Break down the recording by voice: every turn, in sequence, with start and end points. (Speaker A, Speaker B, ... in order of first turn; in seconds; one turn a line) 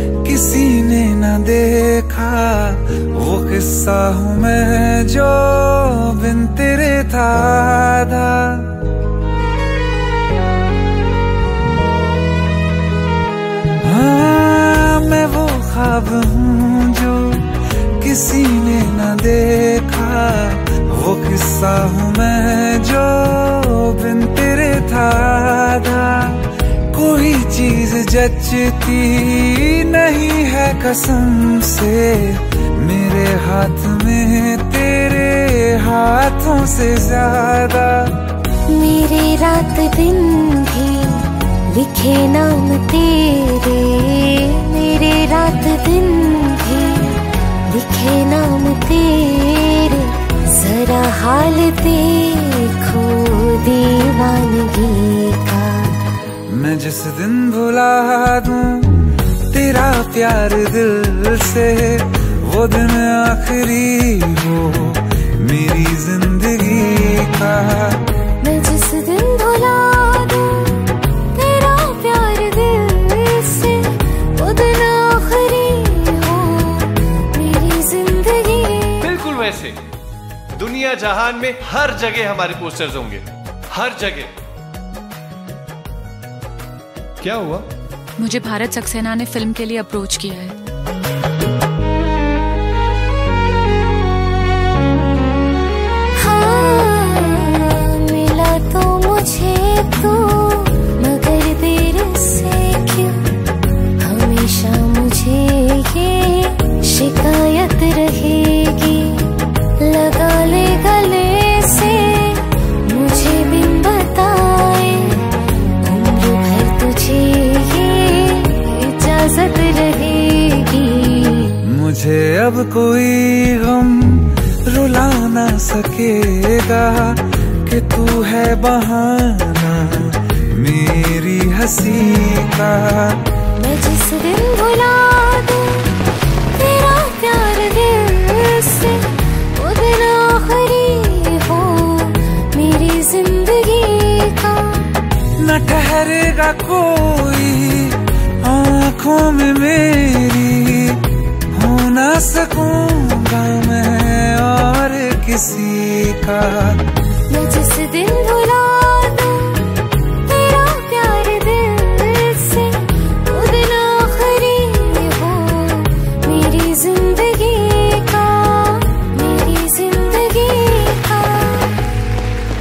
Speaker A: 0.2-8.7
Speaker A: 13.8-17.4
Speaker A: 18.0-26.4
Speaker A: 26.9-38.1
Speaker B: 38.7-47.1
Speaker B: 47.7-55.9
Speaker A: 56.5-58.9
Speaker A: 59.5-68.0
Speaker B: 68.4-70.8
Speaker B: 71.3-73.8
Speaker B: 74.4-79.0
Speaker C: 79.0-79.8
Speaker C: 80.5-84.3
Speaker C: 87.2-87.7
Speaker D: 88.2-90.5
Speaker B: 96.2-103.2
Speaker B: 104.0-109.3
Speaker B: 109.8-115.2
Speaker B: 115.8-121.5
Speaker A: 121.7-133.2
Speaker B: 133.6-135.9
Speaker B: 136.5-139.0
Speaker B: 139.6-144.7
Speaker A: 145.4-151.0
Speaker A: 151.5-156.8
Speaker B: 157.3-159.6
Speaker B: 160.2-171.7